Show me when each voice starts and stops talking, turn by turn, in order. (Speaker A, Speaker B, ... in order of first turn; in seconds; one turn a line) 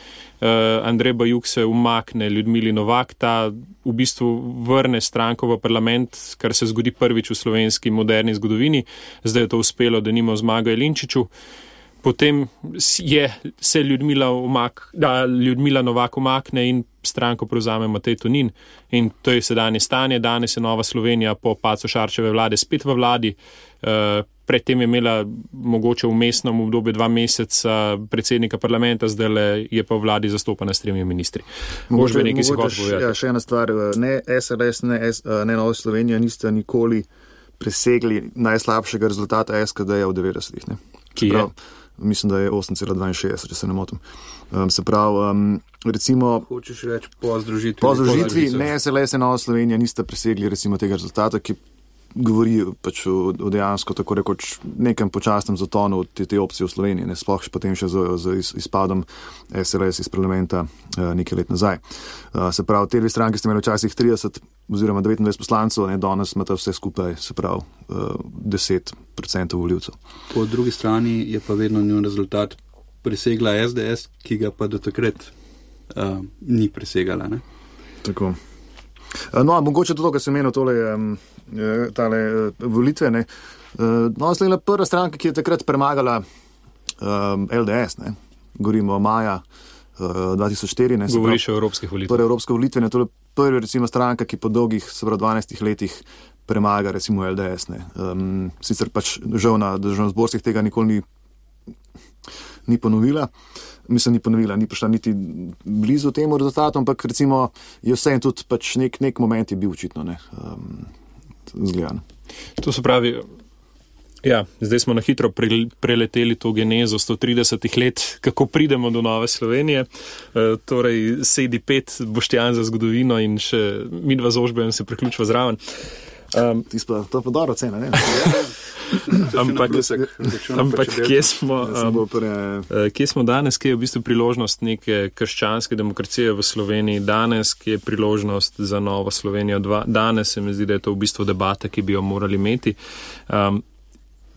Speaker A: 0.4-11.3
Speaker A: 12.0-33.1
Speaker B: 31.9-37.1
Speaker B: 37.6-46.5
Speaker A: 41.2-41.5
Speaker C: 46.5-48.7
Speaker B: 47.8-51.6
Speaker B: 52.1-61.8
Speaker B: 62.3-70.0
Speaker C: 70.3-75.3
Speaker C: 75.9-77.4
Speaker B: 78.0-78.4
Speaker B: 79.3-86.2
Speaker B: 87.0-89.4
Speaker B: 90.0-91.4
Speaker A: 91.1-92.2
Speaker B: 92.1-101.0
Speaker B: 102.7-103.3
Speaker B: 103.9-110.9
Speaker B: 111.5-112.0
Speaker A: 112.6-113.2
Speaker A: 114.2-126.7
Speaker B: 126.7-128.4
Speaker C: 128.1-131.4
Speaker A: 129.1-129.9
Speaker A: 130.5-132.0
Speaker B: 131.6-132.7
Speaker A: 132.7-143.6